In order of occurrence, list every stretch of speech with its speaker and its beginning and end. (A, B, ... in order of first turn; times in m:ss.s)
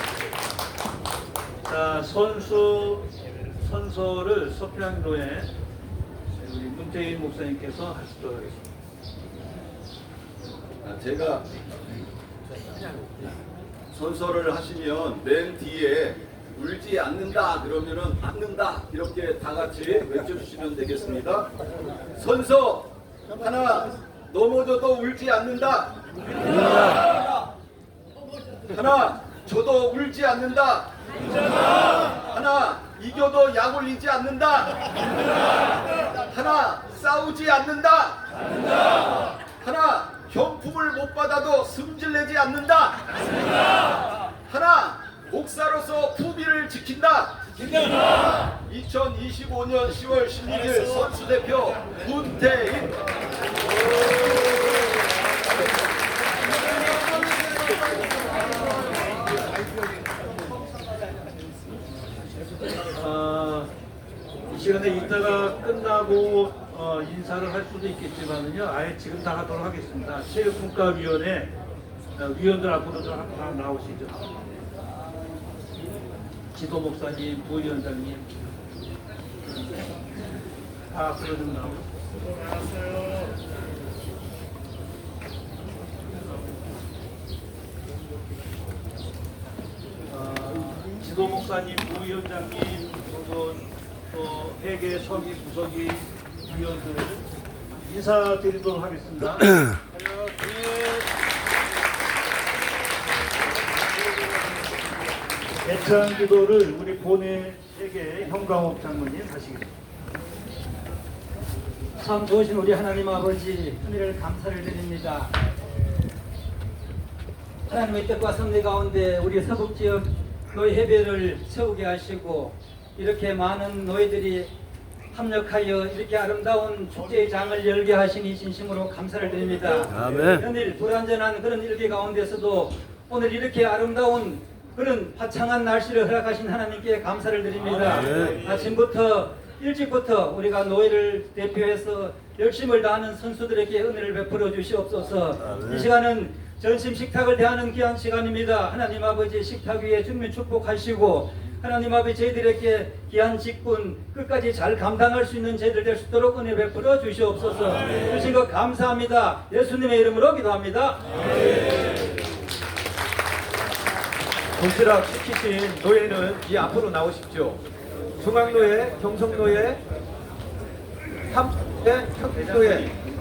0:01.6-0:03.1 A
0:03.6-0:05.5 A
0:06.4-0:08.6 A
0:10.8-0:11.5 B
0:13.9-0:21.5 B
0:22.1-0:27.4 B
0:28.7-0:43.8 B
0:44.5-0:53.0 B
1:02.9-1:03.7 A
1:04.5-1:11.5 A
1:12.2-1:14.2 A
1:16.5-1:18.3 A
1:20.9-1:21.8 A
1:30.1-1:37.2 A
1:37.8-1:39.5 A
1:40.1-1:40.8 A
1:45.6-1:49.7 A
1:52.0-1:55.3 C
1:57.7-2:04.5 C
2:05.1-2:41.1 C
2:17.9-2:18.4 A
2:44.6-2:47.6 D
2:48.2-2:49.8 D
2:51.3-2:52.9 D
2:52.3-2:52.9 A